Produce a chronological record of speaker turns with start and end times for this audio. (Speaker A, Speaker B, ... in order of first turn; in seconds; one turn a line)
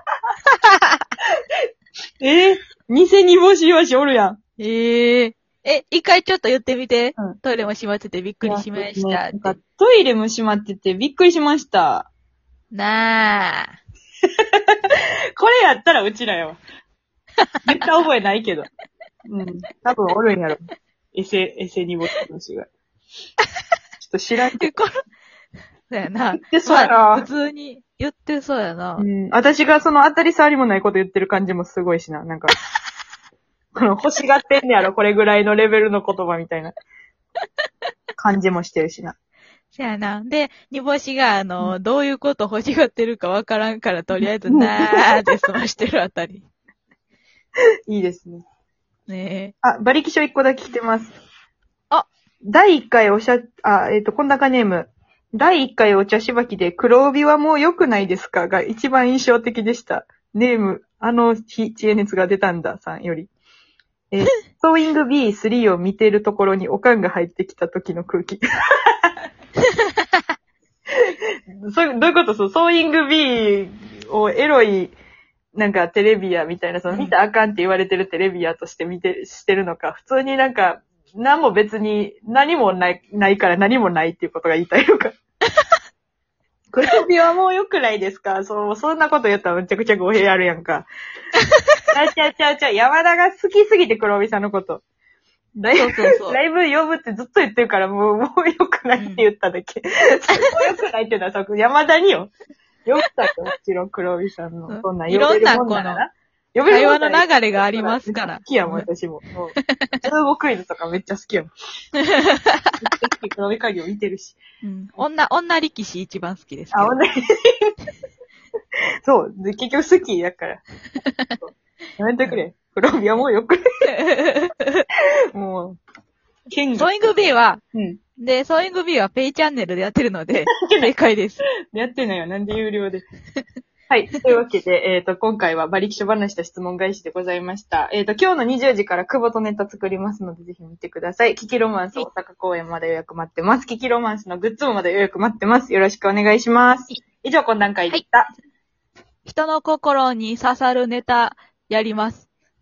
Speaker A: 0.5-1.1
Speaker B: 2.2-4.4
Speaker A: 4.6-9.6
Speaker B: 8.4-12.1
Speaker A: 12.7-13.7
Speaker B: 14.4-16.6
Speaker B: 17.6-18.7
Speaker B: 19.3-20.6
Speaker B: 21.1-22.7
Speaker B: 24.0-24.7
Speaker A: 24.6-25.0
Speaker A: 25.9-29.1
Speaker B: 26.3-27.3
Speaker B: 29.0-32.5
Speaker B: 33.8-36.8
Speaker B: 38.2-39.2
Speaker A: 39.7-46.5
Speaker B: 44.5-45.2
Speaker B: 47.9-48.4
Speaker A: 49.1-49.5
Speaker B: 49.6-51.1
Speaker B: 52.5-63.3
Speaker B: 64.1-68.4
Speaker B: 71.7-75.0
Speaker B: 75.5-85.2
Speaker A: 76.9-77.2
Speaker B: 86.7-90.9
Speaker A: 91.4-91.8
Speaker B: 91.9-94.8
Speaker B: 95.6-102.3
Speaker A: 95.8-96.4
Speaker A: 99.0-99.2
Speaker A: 100.3-100.7
Speaker B: 102.9-111.5
Speaker A: 104.7-106.0
Speaker A: 106.7-108.9
Speaker A: 109.6-110.1
Speaker A: 112.0-112.8
Speaker B: 112.8-114.4
Speaker A: 114.6-117.0
Speaker B: 116.7-117.7
Speaker B: 119.0-120.6
Speaker A: 121.0-121.4
Speaker B: 121.4-123.6
Speaker A: 123.9-124.8
Speaker B: 125.3-125.8
Speaker B: 126.5-128.0
Speaker A: 126.8-127.6
Speaker A: 128.2-131.4
Speaker B: 130.6-130.9
Speaker B: 131.7-133.1
Speaker B: 133.9-148.3
Speaker A: 149.3-152.3